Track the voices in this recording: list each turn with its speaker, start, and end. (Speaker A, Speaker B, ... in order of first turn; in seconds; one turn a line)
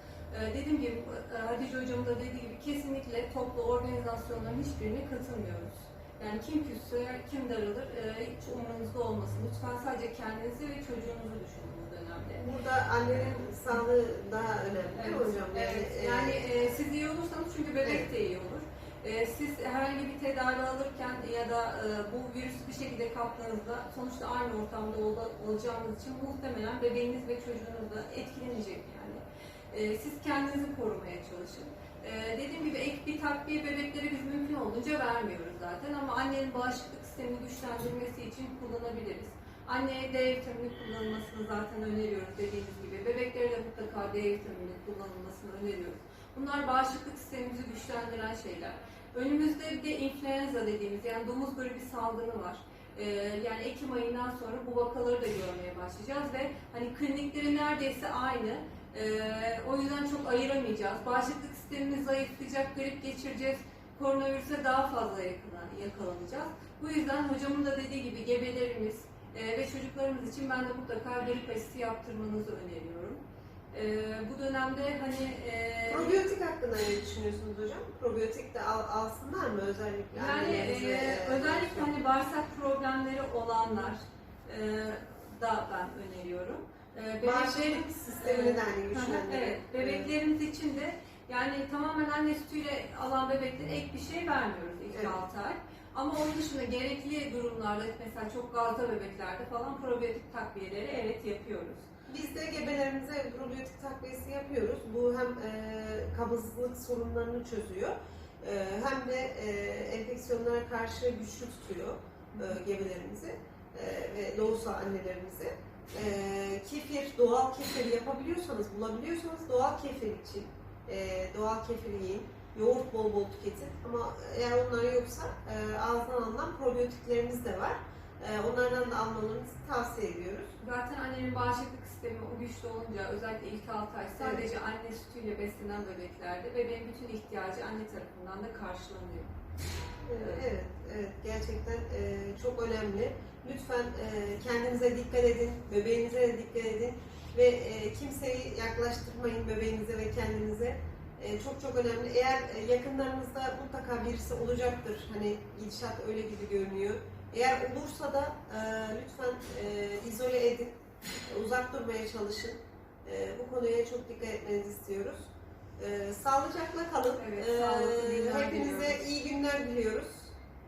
Speaker A: 0.3-12.5
Speaker B: 12.4-16.4
Speaker A: 13.1-13.8
Speaker A: 15.0-76.3
Speaker B: 75.9-81.9
Speaker A: 80.2-101.9
Speaker B: 87.2-90.1
Speaker B: 102.1-130.5
Speaker A: 130.6-139.3
Speaker B: 134.2-134.5
Speaker B: 140.1-170.3
Speaker A: 140.2-140.5
Speaker A: 167.2-169.0